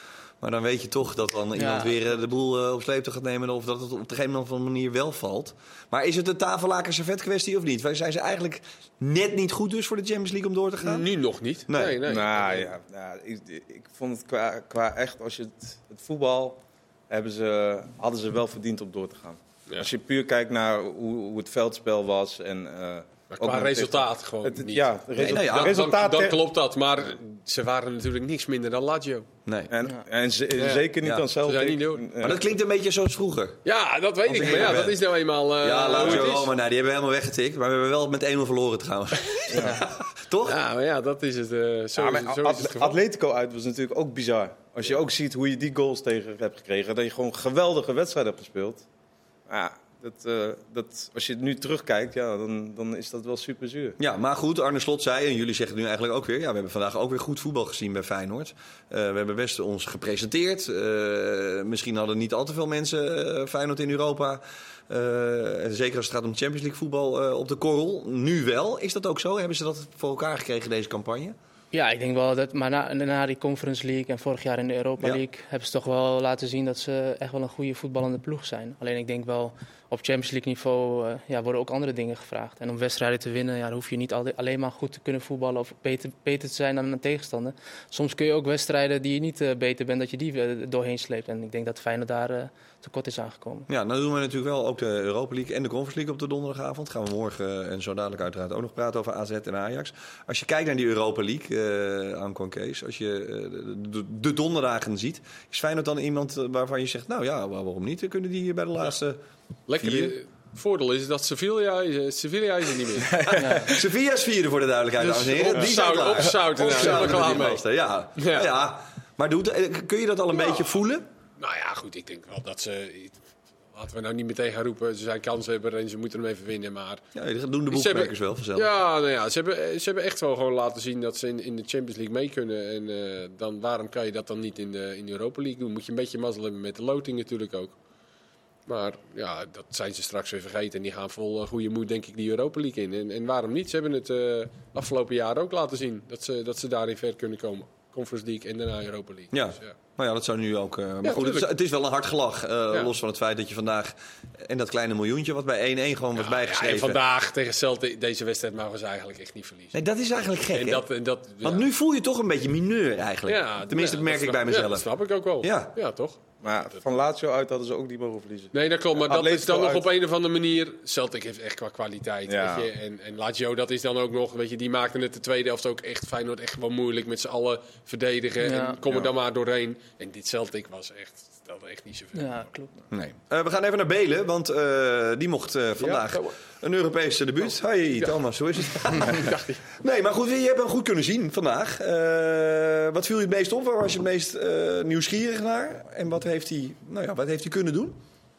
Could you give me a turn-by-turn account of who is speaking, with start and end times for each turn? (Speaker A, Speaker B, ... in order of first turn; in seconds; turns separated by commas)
Speaker A: 0.4-11.1, Speaker B: 1.6-2.0, Speaker C: 10.8-12.7, Speaker A: 11.7-12.0, Speaker D: 12.1-26.4, Speaker C: 23.3-29.3, Speaker A: 25.2-25.8, Speaker A: 29.5-29.7, Speaker D: 29.7-32.4, Speaker C: 30.6-30.9, Speaker C: 31.4-32.1, Speaker A: 32.2-33.6, Speaker C: 33.6-36.5, Speaker A: 34.2-35.0, Speaker A: 35.6-40.6, Speaker D: 36.0-36.3, Speaker D: 39.5-39.8, Speaker C: 40.4-43.0, Speaker D: 42.0-48.9, Speaker D: 49.5-54.0, Speaker A: 54.0-71.4, Speaker B: 71.7-93.7, Speaker A: 93.7-109.2, Speaker C: 109.7-113.4, Speaker A: 109.8-110.2, Speaker D: 113.1-113.8, Speaker B: 113.4-113.7, Speaker A: 113.7-121.1, Speaker C: 115.0-117.6, Speaker C: 118.2-118.5, Speaker C: 121.4-123.2, Speaker C: 123.7-127.0, Speaker A: 127.2-128.7, Speaker C: 127.7-137.8, Speaker C: 138.7-149.7, Speaker A: 149.3-157.0, Speaker C: 151.0-151.5, Speaker C: 156.2-159.8, Speaker A: 159.7-160.8, Speaker C: 160.5-161.7, Speaker A: 161.4-164.9, Speaker C: 163.3-166.2, Speaker A: 165.4-165.7, Speaker D: 166.4-169.8, Speaker C: 168.5-182.4, Speaker D: 172.3-172.7, Speaker B: 178.4-178.8, Speaker B: 182.2-182.7, Speaker A: 182.9-198.0, Speaker C: 185.8-186.4, Speaker C: 188.0-189.8